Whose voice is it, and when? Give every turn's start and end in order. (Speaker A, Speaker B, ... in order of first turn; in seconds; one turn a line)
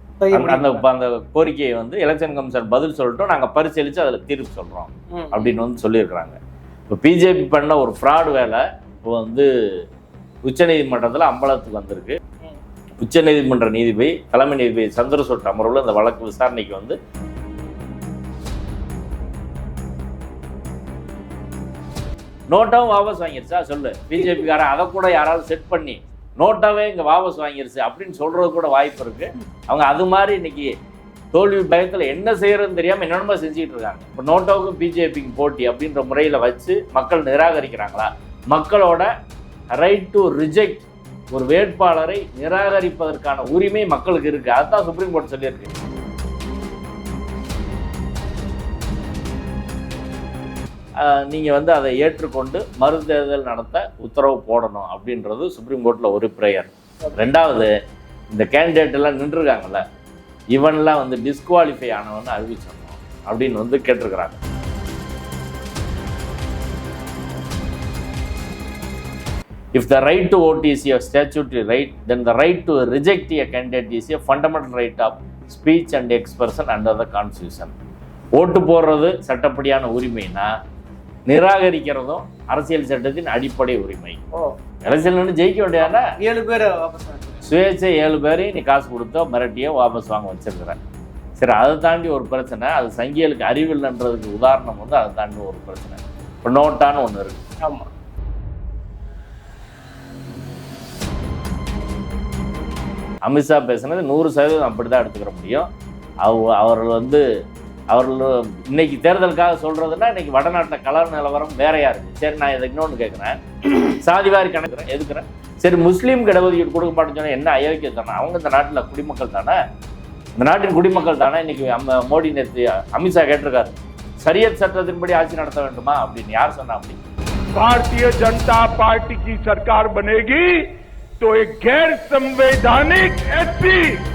Speaker A: 0.2-0.8
Speaker B: 0.3-6.4
Speaker A: 5.1-5.5
Speaker B: 6.9-9.5
Speaker B: 10.4-12.2
Speaker B: 13.0-17.0
Speaker B: 22.5-30.7
Speaker B: 31.3-39.1
Speaker B: 39.7-45.7
Speaker B: 51.0-57.7
Speaker B: 58.3-59.8
Speaker B: 60.5-64.4
Speaker B: 69.8-77.7
Speaker B: 78.4-80.5
Speaker B: 81.3-84.2
Speaker B: 84.8-86.1
Speaker A: 85.8-87.4
Speaker B: 87.5-90.8
Speaker B: 91.4-97.4
Speaker A: 97.6-97.9
Speaker B: 103.3-105.7
Speaker B: 106.2-107.2
Speaker B: 107.9-119.6
Speaker B: 120.4-127.0
Speaker C: 127.5-134.0